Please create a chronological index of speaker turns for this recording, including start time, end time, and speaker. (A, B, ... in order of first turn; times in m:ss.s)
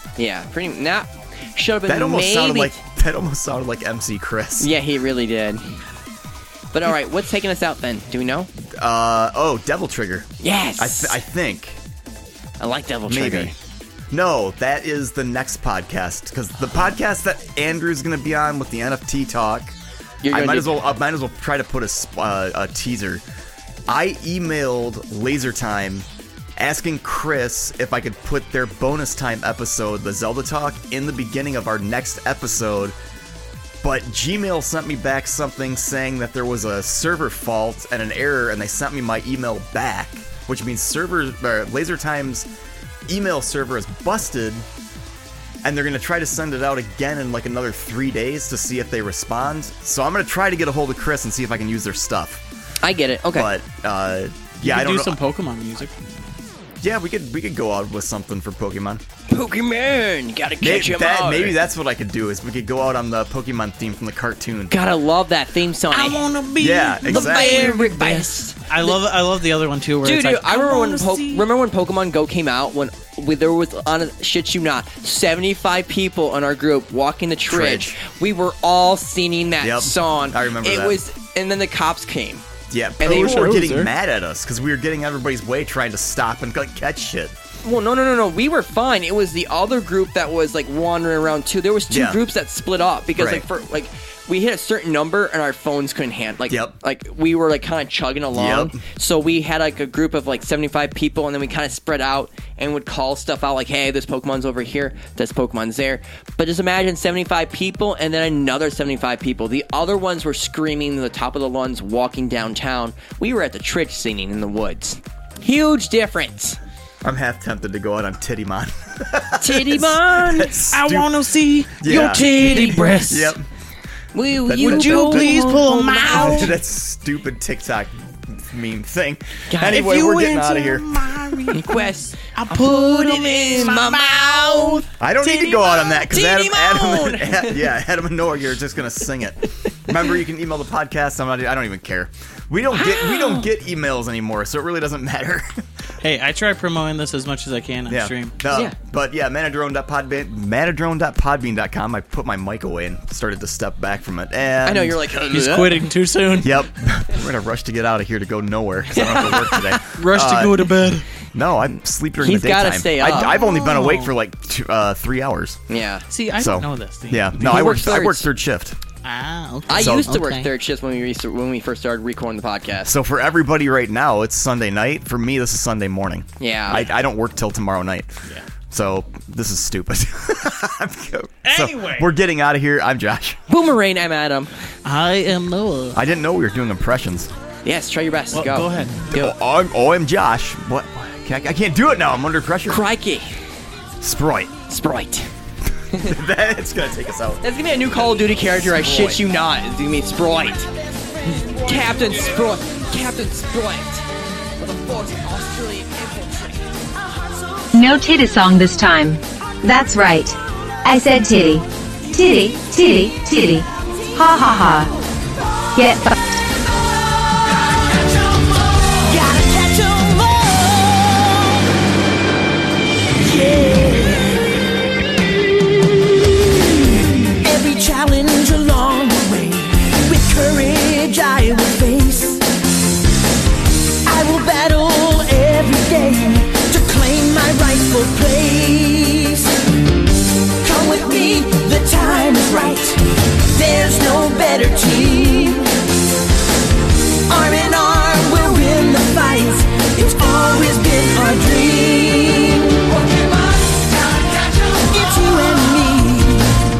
0:00.2-0:02.8 A
0:01.9-0:04.7 B
0:04.6-0:05.8 A
0:06.7-0:08.5 A
0:08.8-0:11.8 B
0:10.4-0:11.2 A
0:12.6-0:13.5 A
0:13.1-0:13.5 B
0:14.1-0:19.8 B
0:20.2-0:20.7 A
0:20.3-0:23.2 B
0:23.9-0:26.0 B
0:26.6-0:33.0 B
0:33.8-0:42.5 B
0:43.1-0:44.6 B
0:45.6-0:52.4 B
0:52.8-0:53.5 A
0:53.3-0:55.2 B
0:54.6-0:55.9 C
0:56.8-0:59.0 B
0:59.3-1:01.6 A
1:00.6-1:04.7 B
1:04.7-1:06.2 A
1:05.9-1:11.4 C
1:06.6-1:07.8 B
1:07.0-1:09.0 A
1:10.0-1:22.4 A
1:17.5-1:18.0 B
1:19.6-1:21.0 B
1:22.7-1:27.3 B
1:23.0-1:23.5 A
1:23.0-1:23.9 C
1:27.6-1:56.6 A
1:31.9-1:32.2 B
1:33.1-1:33.4 B
1:36.5-1:36.7 B
1:38.3-1:38.8 B
1:57.0-2:01.1 B
1:59.4-2:00.5 A
2:00.7-2:03.4 C
2:01.8-2:03.4 B
2:01.9-2:02.5 A
2:04.1-2:06.5 A
2:04.5-2:05.4 B
2:04.6-2:06.5 C
2:06.0-2:11.5 B
2:09.5-2:09.8 A
2:09.6-2:14.8 C
2:11.5-2:17.6 A
2:15.0-2:25.6 B
2:22.7-2:23.5 A
2:26.0-2:28.3 C
2:27.9-2:35.0 B
2:34.6-2:35.9 A
2:35.3-2:36.7 C
2:36.4-2:40.7 B
2:39.0-2:39.6 A
2:39.0-2:41.0 C
2:41.3-2:45.6 B
2:42.2-2:43.4 A
2:43.0-2:44.1 C
2:45.7-2:46.0 A
2:46.1-2:48.0 C
2:46.3-2:48.8 B
2:47.4-2:48.3 A
2:49.0-2:50.5 C
2:49.7-2:52.9 A
2:49.7-2:50.1 B
2:52.8-3:03.4 B
2:56.4-2:56.9 A
3:01.4-3:02.1 C
3:03.5-3:04.5 A
3:04.8-3:06.0 C
3:05.9-3:07.3 B
3:07.6-3:09.3 A
3:08.3-3:09.0 C
3:09.1-3:12.8 B
3:12.7-3:13.3 A
3:14.0-3:14.5 B
3:14.7-3:15.3 A
3:15.9-3:19.2 B
3:17.4-3:20.7 A
3:20.5-3:22.8 D
3:21.6-3:24.0 A
3:24.6-3:27.9 D
3:24.6-3:25.4 A
3:27.7-3:34.9 E
3:34.2-3:34.8 D
3:35.8-3:36.1 E
3:36.6-3:41.6 D
3:43.2-3:44.6 D
3:46.6-3:52.4 D
3:54.0-3:59.5 D
4:00.6-4:05.7 D
4:07.3-4:16.6 D